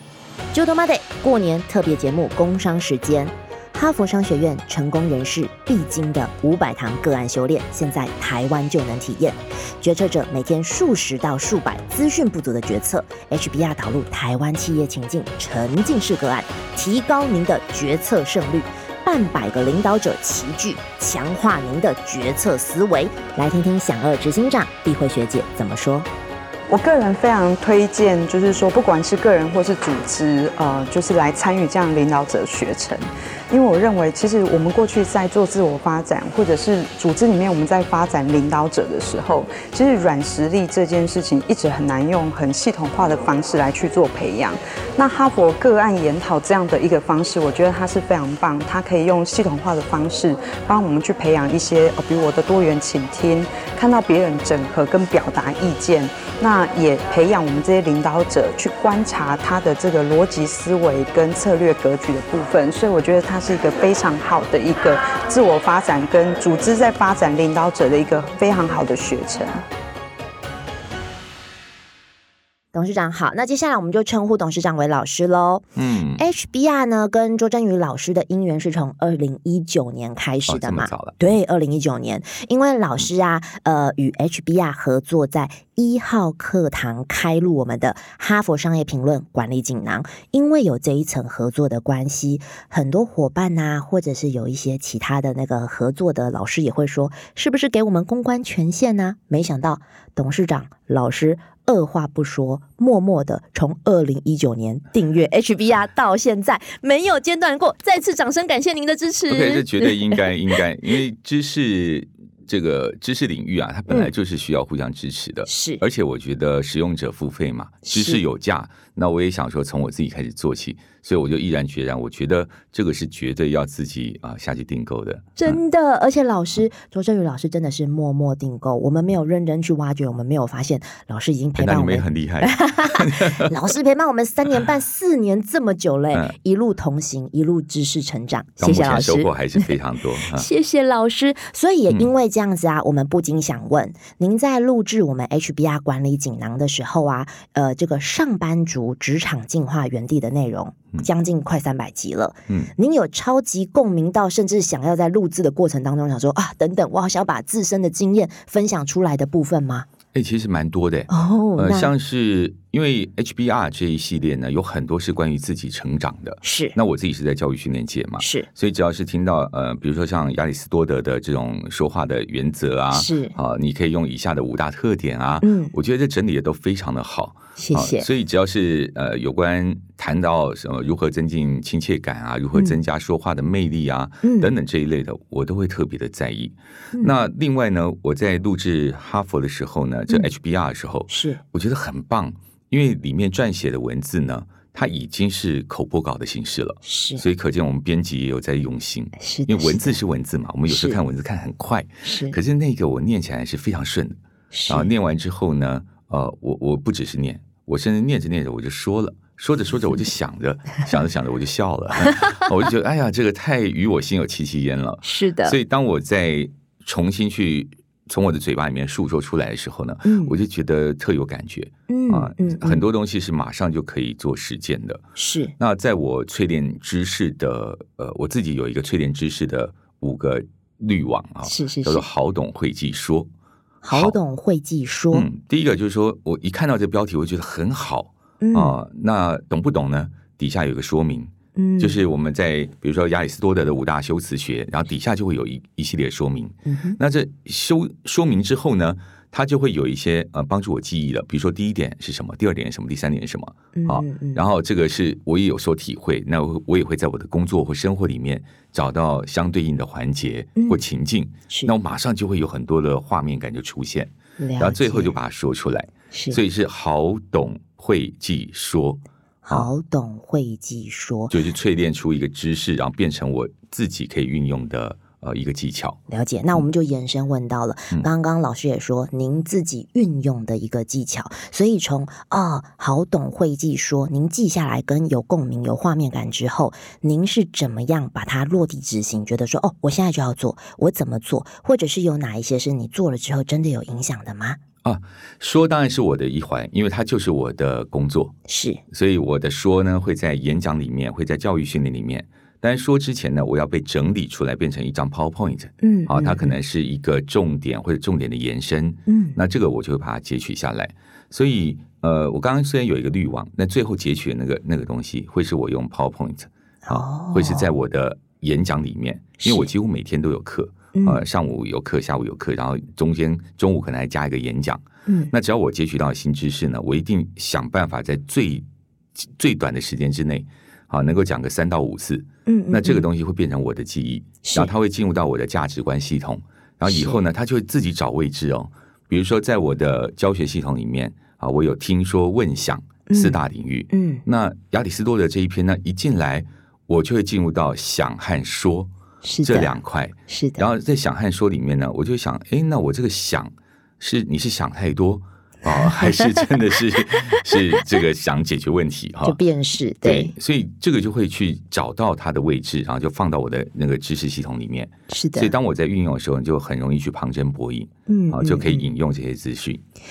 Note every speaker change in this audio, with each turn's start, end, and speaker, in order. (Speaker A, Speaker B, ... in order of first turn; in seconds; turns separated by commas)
Speaker A: 0.5-26.1, Speaker B: 26.7-69.6, Speaker A: 72.7-75.7, Speaker C: 75.8-76.2, Speaker A: 76.2-110.2, Speaker C: 80.5-81.2, Speaker C: 109.3-125.6, Speaker A: 115.5-115.8, Speaker A: 117.9-118.2, Speaker A: 125.4-139.7, Speaker C: 131.6-133.5, Speaker C: 138.6-140.5, Speaker A: 140.3-159.9, Speaker C: 160.1-225.0, Speaker A: 161.1-161.9, Speaker A: 166.4-166.8, Speaker A: 168.2-168.5, Speaker A: 172.9-173.3, Speaker A: 175.4-175.7, Speaker A: 177.6-178.1, Speaker A: 184.2-184.5, Speaker A: 191.1-191.4, Speaker A: 196.8-197.2, Speaker A: 199.2-200.0, Speaker A: 200.7-201.0, Speaker A: 202.0-202.4, Speaker A: 204.5-204.9, Speaker A: 215.0-215.6, Speaker A: 220.0-220.3, Speaker A: 221.9-222.8, Speaker A: 225.2-225.5, Speaker C: 225.6-233.3, Speaker A: 231.4-232.0, Speaker A: 233.8-235.3, Speaker C: 233.9-234.2, Speaker C: 235.1-269.7, Speaker A: 238.4-238.8, Speaker A: 241.6-242.0, Speaker A: 246.7-247.0, Speaker A: 253.7-254.4, Speaker A: 264.4-265.1, Speaker A: 266.1-266.4, Speaker A: 269.4-271.4, Speaker C: 271.3-276.0, Speaker A: 276.1-294.6, Speaker C: 294.8-298.3, Speaker A: 298.5-298.8, Speaker C: 298.9-328.6, Speaker A: 305.8-306.6, Speaker A: 309.1-309.4, Speaker A: 316.9-317.7, Speaker A: 319.4-319.7, Speaker A: 320.9-321.2, Speaker C: 329.2-348.9, Speaker A: 332.4-333.1, Speaker A: 334.4-334.7, Speaker A: 336.9-337.2, Speaker A: 343.1-343.4, Speaker A: 343.9-344.2, Speaker A: 349.2-349.7, Speaker C: 349.4-359.4, Speaker A: 350.3-350.6, Speaker A: 355.7-356.2, Speaker A: 359.2-360.3, Speaker C: 360.0-369.8, Speaker A: 365.1-365.5, Speaker A: 368.1-368.9